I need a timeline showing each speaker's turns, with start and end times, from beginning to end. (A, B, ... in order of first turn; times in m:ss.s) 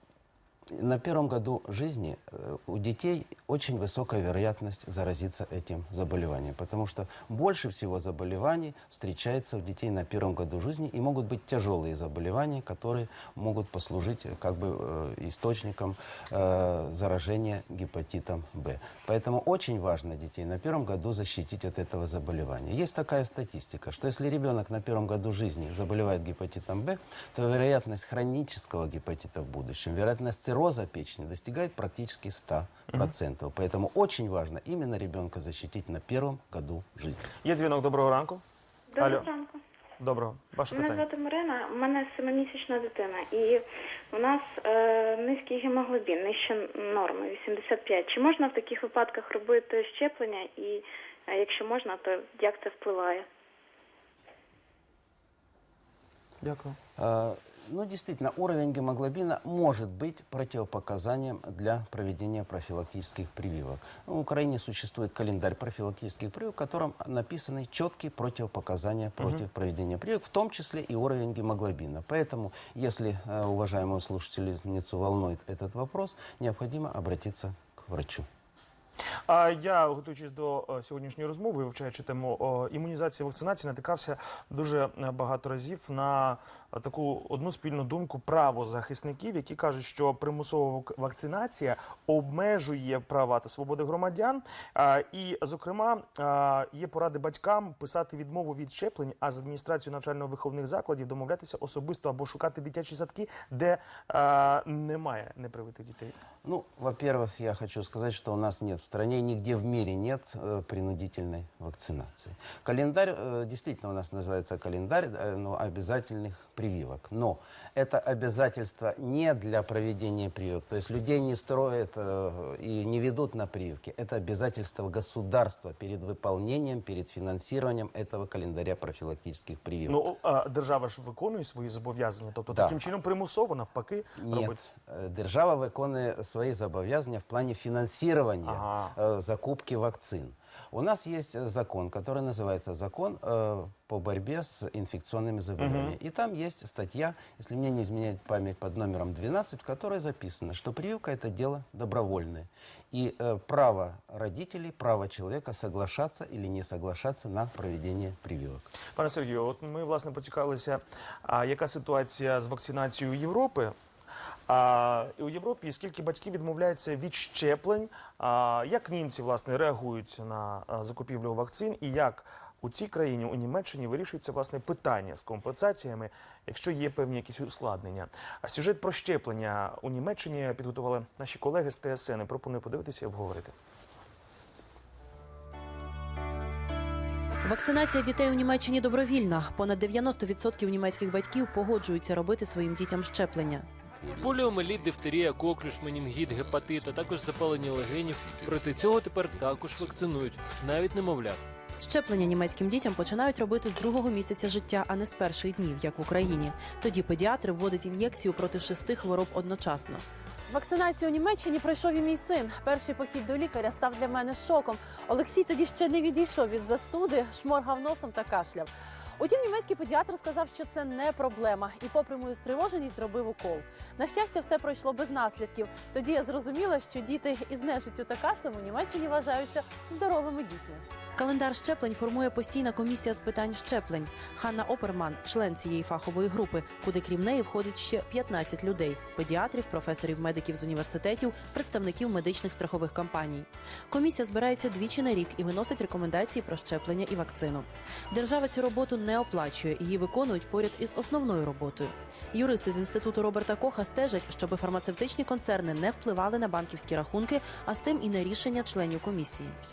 0:00.7-0:37.3 A
0:37.4-0:38.4 B
0:38.9-0:39.6 C
0:39.0-0:39.3 B
0:40.0-0:41.1 B
0:40.7-0:53.3 C
0:56.4-0:56.8 B
0:57.0-1:18.3 A
1:19.3-1:46.2 B
1:46.4-2:10.1 A
2:09.9-2:14.6 B
2:12.5-2:12.9 A
2:14.2-2:38.7 A
2:18.4-2:19.0 B
2:25.6-2:26.0 B
2:39.0-2:43.7 B
2:44.5-3:03.5 B
3:07.4-3:13.7 D
3:14.0-3:21.4 E
3:21.8-3:30.0 D
3:30.5-3:50.8 F
3:51.2-4:19.6 D